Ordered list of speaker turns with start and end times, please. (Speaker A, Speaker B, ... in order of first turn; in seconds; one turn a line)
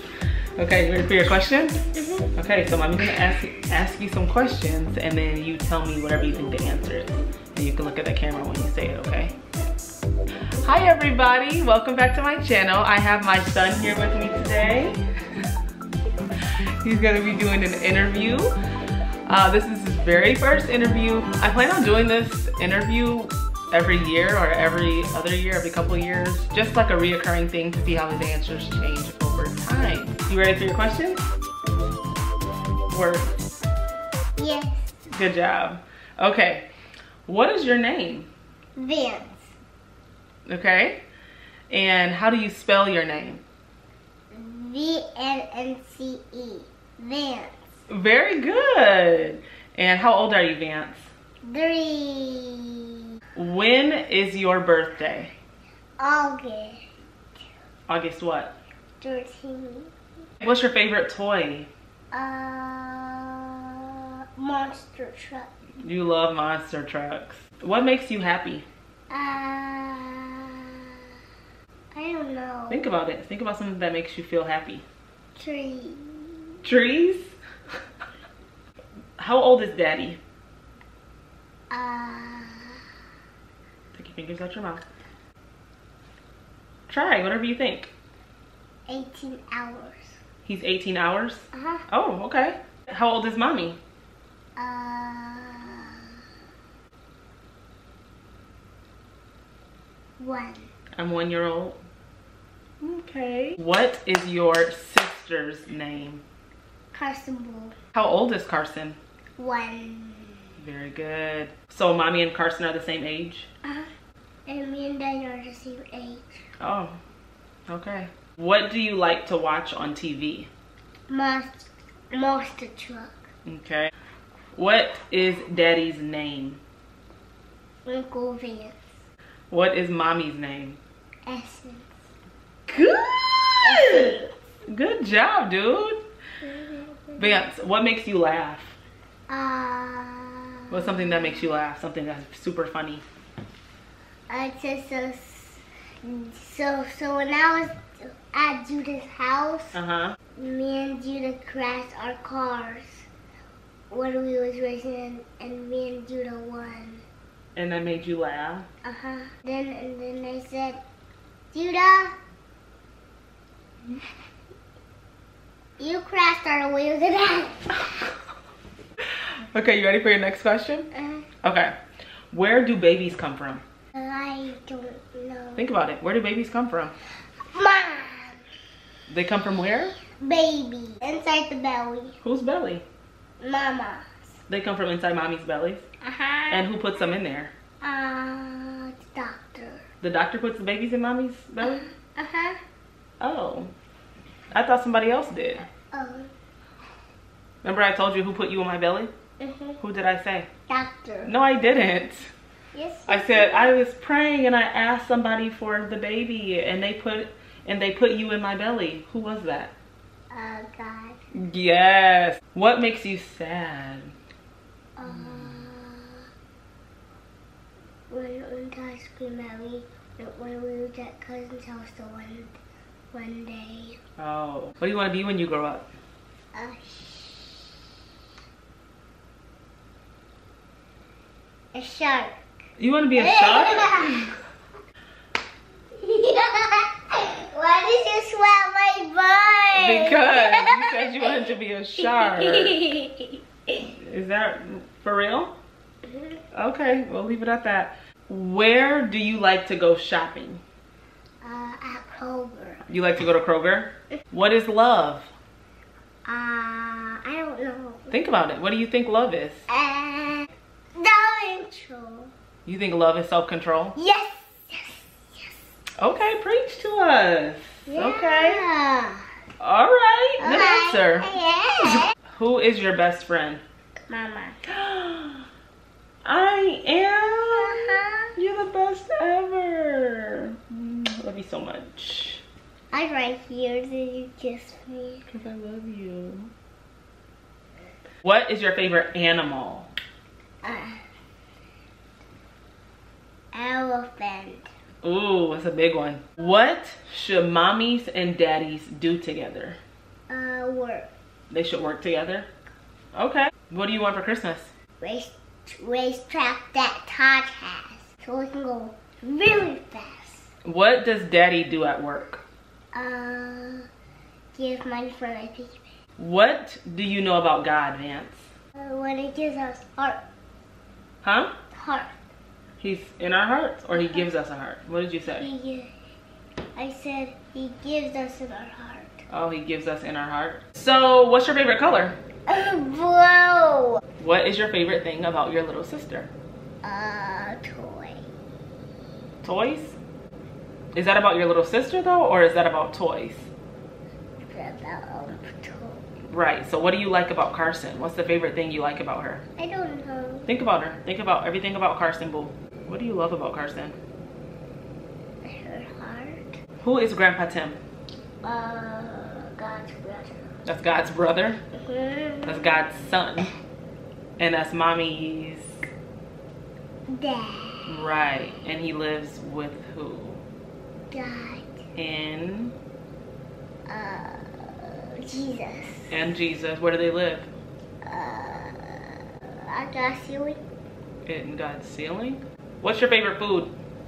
Speaker A: 0.6-1.8
Speaker A: 2.4-9.4
Speaker A: 10.6-15.0
Speaker A: 16.8-18.5
Speaker A: 19.3-31.2
Speaker A: 32.9-33.4
Speaker B: 34.4-35.0
Speaker A: 35.1-36.7
Speaker A: 37.2-38.3
Speaker B: 38.8-39.5
Speaker A: 40.5-41.0
Speaker A: 41.7-43.4
Speaker B: 44.3-47.6
Speaker A: 47.9-51.1
Speaker B: 51.4-53.0
Speaker A: 53.3-55.3
Speaker B: 56.0-56.9
Speaker A: 57.9-58.5
Speaker B: 59.0-59.9
Speaker A: 60.4-61.7
Speaker B: 62.1-65.5
Speaker A: 65.8-68.7
Speaker B: 69.1-70.9
Speaker B: 71.9-72.9
Speaker A: 72.7-74.8
Speaker B: 75.4-76.5
Speaker A: 76.6-77.3
Speaker A: 79.2-80.2
Speaker B: 81.7-82.8
Speaker A: 83.9-84.8
Speaker A: 86.9-87.9
Speaker B: 88.9-90.2
Speaker A: 90.5-93.8
Speaker B: 91.5-91.9
Speaker B: 94.6-96.2
Speaker B: 100.2-100.7
Speaker A: 101.0-101.8
Speaker A: 102.8-106.2
Speaker B: 106.9-107.8
Speaker A: 107.9-109.0
Speaker B: 109.4-110.5
Speaker A: 110.6-113.5
Speaker B: 113.7-113.9
Speaker B: 114.5-116.5
Speaker A: 116.6-117.0
Speaker A: 117.7-120.5
Speaker B: 121.1-123.3
Speaker A: 123.5-123.9
Speaker A: 124.5-126.6
Speaker B: 127.9-128.9
Speaker A: 129.5-130.8
Speaker B: 131.2-131.9
Speaker A: 132.7-134.2
Speaker B: 133.6-134.3
Speaker A: 134.7-136.0
Speaker B: 136.4-137.4
Speaker A: 137.2-138.8
Speaker B: 139.3-141.4
Speaker A: 140.7-143.0
Speaker B: 144.3-149.8
Speaker A: 149.7-150.2
Speaker B: 150.4-153.1
Speaker B: 153.9-157.0
Speaker A: 157.6-158.7
Speaker B: 158.8-160.8
Speaker B: 161.5-162.2
Speaker B: 165.8-167.7
Speaker A: 169.5-170.9
Speaker B: 170.9-171.2
Speaker A: 171.4-171.8
Speaker A: 172.3-173.6
Speaker B: 173.9-175.7
Speaker A: 175.6-176.9
Speaker B: 177.5-178.4
Speaker A: 179.1-179.9
Speaker B: 180.2-182.2
Speaker A: 182.2-182.8
Speaker B: 183.4-184.3
Speaker A: 184.5-185.9
Speaker B: 186.0-186.7
Speaker A: 186.5-187.5
Speaker B: 187.8-189.8
Speaker A: 190.0-191.9
Speaker B: 192.1-192.6
Speaker A: 193.2-193.7
Speaker A: 194.5-195.7
Speaker B: 195.9-196.3
Speaker A: 197.6-199.1
Speaker B: 199.4-199.8
Speaker A: 199.8-200.5
Speaker B: 200.7-201.3
Speaker A: 201.2-202.3
Speaker B: 202.7-203.8
Speaker A: 203.1-209.8
Speaker B: 210.3-211.2
Speaker A: 211.3-214.1
Speaker B: 215.0-216.3
Speaker A: 215.1-215.6
Speaker B: 218.1-222.6
Speaker B: 223.1-224.0
Speaker A: 224.2-225.9
Speaker B: 226.5-227.7
Speaker B: 231.7-232.4
Speaker A: 232.8-234.3
Speaker B: 233.2-234.2
Speaker B: 236.0-241.4
Speaker A: 239.7-242.8
Speaker B: 242.1-243.4
Speaker A: 244.0-245.6
Speaker B: 246.1-246.3
Speaker A: 246.5-250.6
Speaker B: 251.4-252.8
Speaker A: 252.9-255.3
Speaker B: 256.2-258.1
Speaker A: 258.1-259.6
Speaker B: 259.7-262.3
Speaker A: 262.6-264.0
Speaker B: 263.9-265.6
Speaker A: 266.0-268.6
Speaker B: 267.9-269.3
Speaker A: 269.6-271.3
Speaker B: 270.4-272.1
Speaker A: 272.3-273.6
Speaker B: 274.1-274.6
Speaker A: 274.7-275.4
Speaker A: 276.2-282.4
Speaker B: 277.5-278.3
Speaker B: 282.9-285.2
Speaker A: 285.3-286.5
Speaker A: 288.2-289.9
Speaker B: 290.6-291.0
Speaker B: 293.5-294.7
Speaker A: 295.0-299.8
Speaker B: 300.3-301.1
Speaker A: 301.5-302.5
Speaker A: 303.1-304.7
Speaker B: 305.0-310.5
Speaker A: 310.6-312.4
Speaker B: 312.9-313.9
Speaker B: 314.5-315.9
Speaker A: 316.2-318.5
Speaker B: 318.8-320.2
Speaker A: 321.2-321.5
Speaker B: 321.7-322.1
Speaker A: 322.8-325.5
Speaker B: 323.9-324.2
Speaker B: 325.3-325.9
Speaker B: 326.8-329.2
Speaker A: 329.3-332.2
Speaker B: 332.5-334.0
Speaker A: 334.2-336.3
Speaker B: 336.8-338.2
Speaker A: 339.4-340.0
Speaker A: 340.9-343.5
Speaker B: 344.4-346.0
Speaker A: 346.3-349.4
Speaker B: 349.6-350.5
Speaker A: 350.5-353.9
Speaker B: 355.4-356.5
Speaker A: 356.8-357.8
Speaker B: 358.4-360.6
Speaker A: 360.6-361.6
Speaker B: 361.8-362.9
Speaker A: 362.4-363.5
Speaker A: 364.4-365.8
Speaker B: 367.1-367.9
Speaker A: 367.9-370.4
Speaker B: 371.1-371.7
Speaker A: 371.9-372.8
Speaker B: 373.9-376.2
Speaker A: 376.1-377.5
Speaker B: 378.0-380.6
Speaker A: 381.2-383.8